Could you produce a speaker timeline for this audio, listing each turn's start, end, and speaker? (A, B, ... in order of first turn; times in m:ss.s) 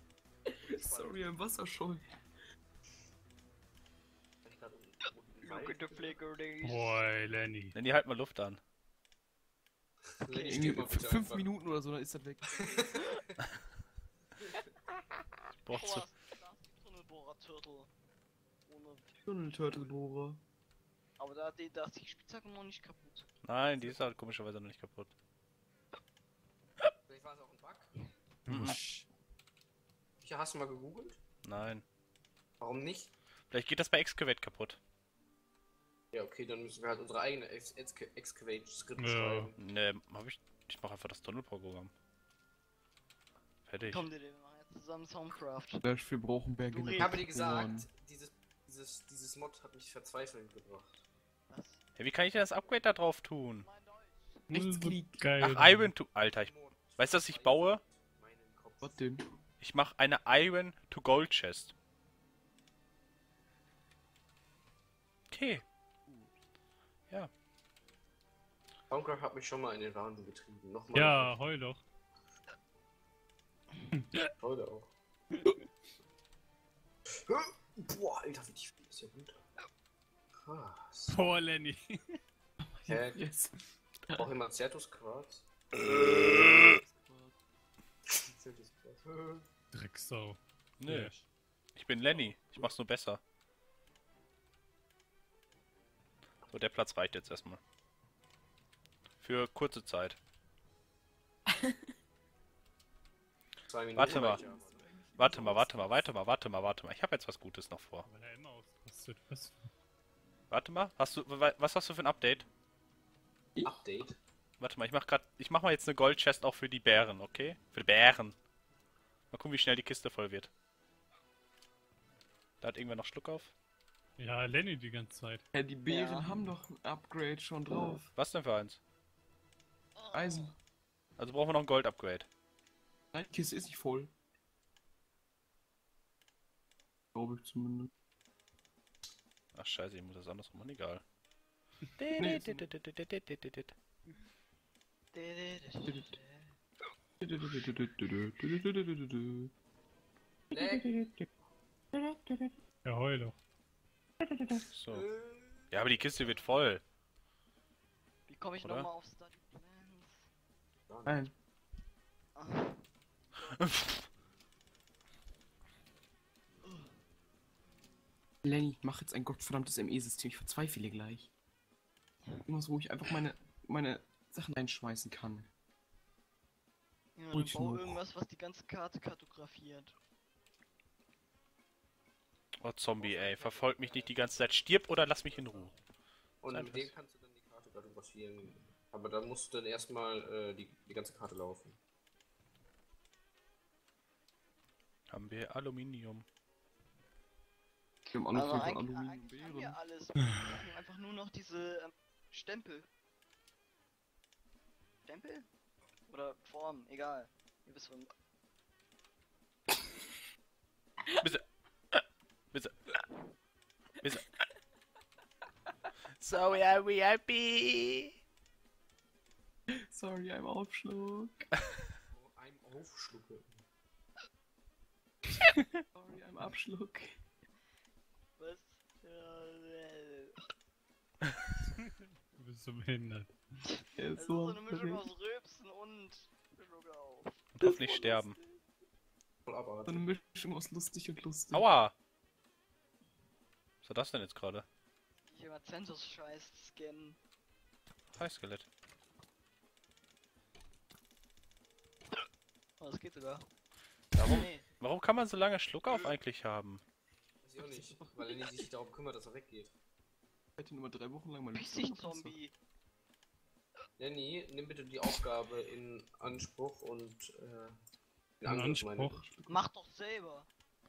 0:00.6-0:01.2 A
0:00.7-0:02.1 B
0:04.4-0:06.0 A
0:05.4-0:07.0 C
0:06.6-0:07.7 D
0:07.7-0:08.6 E
0:10.2-0:11.4 A
0:10.3-0:13.0 B
0:12.6-0:13.2 A
0:15.6-0:16.1 E
0:15.7-0:17.9 C
0:18.6-0:19.9 C
0:19.2-0:20.4 B
0:21.2-0:23.3 C
0:23.4-0:25.1 E
0:27.1-0:27.9 A
0:28.5-0:29.0 D
0:28.5-0:28.8 E
0:30.2-0:31.2 A
0:31.4-0:31.8 E
0:32.6-0:33.1 A
0:33.5-0:34.8 E
0:36.1-0:39.6 A
0:39.0-0:39.5 D
0:39.6-0:41.9 E
0:43.6-0:44.1 E
0:43.8-0:45.8 C
0:45.8-0:47.9 B
0:46.7-0:47.7 C
0:47.0-0:51.0 A
0:51.5-0:51.8 C
0:52.0-0:53.6 E
0:53.6-0:54.5 C
0:54.5-0:55.2 B
0:54.5-0:55.9 D
0:55.4-0:57.8 E
0:56.2-0:59.0 A
0:58.8-0:59.2 B
0:59.6-1:01.7 E
1:05.3-1:05.6 E
1:06.1-1:06.3 B
1:08.9-1:11.4 A
1:10.9-1:11.8 D
1:13.9-1:14.3 D
1:14.4-1:14.9 A
1:17.3-1:19.4 A
1:20.4-1:21.4 A
1:21.1-1:22.2 D
1:22.6-1:24.3 B
1:22.9-1:23.2 A
1:24.2-1:26.5 A
1:25.8-1:27.4 B
1:28.1-1:29.4 A
1:29.7-1:31.2 D
1:30.8-1:31.1 E
1:31.7-1:33.2 E
1:32.1-1:32.6 A
1:36.5-1:37.6 E
1:39.2-1:40.2 E
1:41.5-1:41.9 B
1:43.7-1:44.8 A
1:43.9-1:44.4 E
1:44.0-1:46.1 B
1:45.2-1:48.1 E
1:48.0-1:49.7 D
1:50.5-1:52.5 E
1:53.6-1:54.2 A
1:54.6-1:58.4 E
1:59.3-2:00.5 E
2:02.6-2:03.5 E
2:04.2-2:05.4 D
2:05.5-2:08.1 B
2:05.9-2:06.3 C
2:08.2-2:08.8 E
2:09.9-2:10.5 C
2:10.1-2:10.6 B
2:11.2-2:12.3 E
2:13.1-2:14.1 B
2:17.1-2:17.9 B
2:19.5-2:21.0 E
2:22.0-2:23.7 E
2:22.2-2:22.7 B
2:25.1-2:26.4 C
2:27.2-2:29.5 B
2:30.5-2:31.3 B
2:30.5-2:30.9 A
2:31.9-2:32.5 B
2:32.8-2:33.4 D
2:34.2-2:34.7 B
2:34.7-2:35.0 E
2:34.9-2:35.9 A
2:35.7-2:36.8 E
2:38.3-2:40.3 C
2:38.6-2:38.9 E
2:40.9-2:41.2 A
2:41.0-2:41.3 B
2:42.3-2:43.7 C
2:43.6-2:44.0 E
2:46.6-2:46.9 C
2:48.4-2:51.3 B
2:52.5-2:55.5 B
2:57.2-3:00.0 C
2:57.3-2:58.0 B
3:02.6-3:05.7 E
3:03.0-3:05.8 A
3:06.4-3:11.8 A
3:06.5-3:06.9 E
3:15.1-3:16.2 E
3:18.1-3:19.8 B
3:18.3-3:22.9 C
3:25.0-3:25.5 C
3:26.1-3:28.1 C
3:31.2-3:32.8 E
3:36.2-3:38.1 E
3:36.3-3:36.6 C
3:39.7-3:41.5 B
3:42.1-3:43.6 A
3:45.9-3:47.2 B
3:48.4-3:50.5 C
3:51.8-3:53.4 D
3:53.6-3:57.5 C
3:54.0-3:55.1 B
3:57.5-3:58.4 E
3:57.6-3:58.3 B
3:59.4-4:00.1 A
3:59.8-4:01.7 B
4:01.5-4:01.9 E
4:03.8-4:04.6 E
4:05.3-4:07.2 C
4:08.1-4:08.7 E
4:12.8-4:13.5 C
4:14.1-4:14.6 C
4:14.2-4:16.8 E
4:15.9-4:16.1 A
4:17.4-4:19.7 A
4:17.6-4:18.3 B
4:20.6-4:22.3 B
4:21.5-4:22.5 C
4:24.0-4:27.7 A
4:28.4-4:29.2 A
4:28.4-4:29.2 D
4:28.6-4:29.6 B
4:29.5-4:30.5 C